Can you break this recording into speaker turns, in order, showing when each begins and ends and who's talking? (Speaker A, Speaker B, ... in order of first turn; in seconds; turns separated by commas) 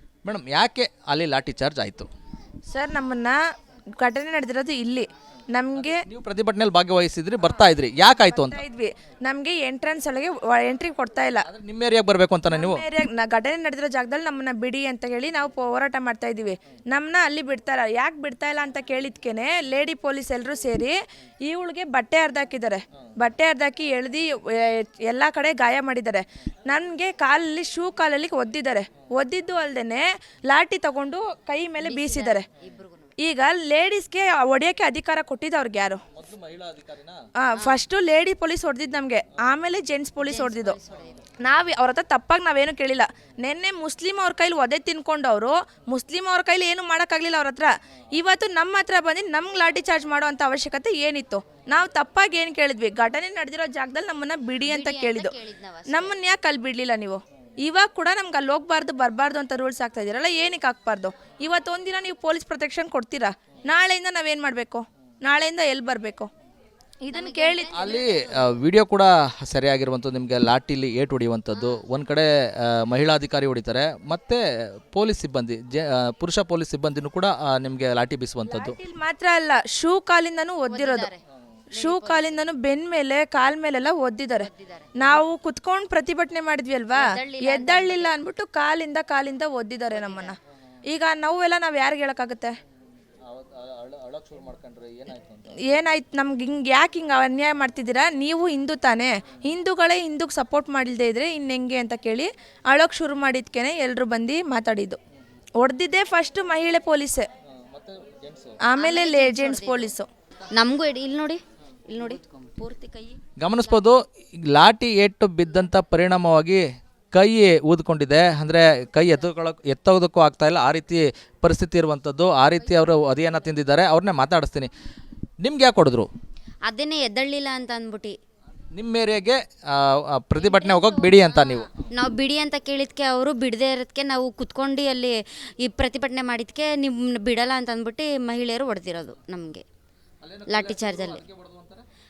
Speaker A: 0.2-2.1, Speaker B: 2.7-3.4, Speaker B: 4.0-6.0, Speaker A: 5.8-8.6, Speaker B: 7.4-11.5, Speaker A: 11.4-12.8, Speaker B: 12.5-32.5, Speaker C: 31.8-33.1, Speaker B: 33.2-36.0, Speaker A: 36.1-37.2, Speaker B: 37.4-40.8, Speaker C: 37.6-37.8, Speaker C: 40.2-41.2, Speaker B: 41.4-55.3, Speaker C: 54.6-56.1, Speaker B: 55.9-66.3, Speaker B: 67.0-67.7, Speaker C: 67.1-68.6, Speaker A: 67.7-78.8, Speaker C: 71.5-71.8, Speaker B: 78.5-81.1, Speaker C: 80.7-81.2, Speaker C: 81.7-82.3, Speaker B: 81.7-90.3, Speaker C: 84.3-85.2, Speaker C: 86.9-88.1, Speaker C: 89.9-90.3, Speaker B: 90.9-92.5, Speaker A: 93.3-95.4, Speaker B: 95.7-105.0, Speaker B: 105.6-107.3, Speaker A: 107.7-108.5, Speaker B: 108.7-110.1, Speaker C: 108.8-109.9, Speaker C: 110.5-111.4, Speaker C: 111.9-113.2, Speaker A: 113.4-124.7, Speaker C: 122.7-123.1, Speaker A: 125.4-126.1, Speaker C: 126.7-128.2, Speaker A: 128.7-131.7, Speaker C: 130.3-139.6, Speaker A: 140.2-141.8, Speaker C: 140.5-141.2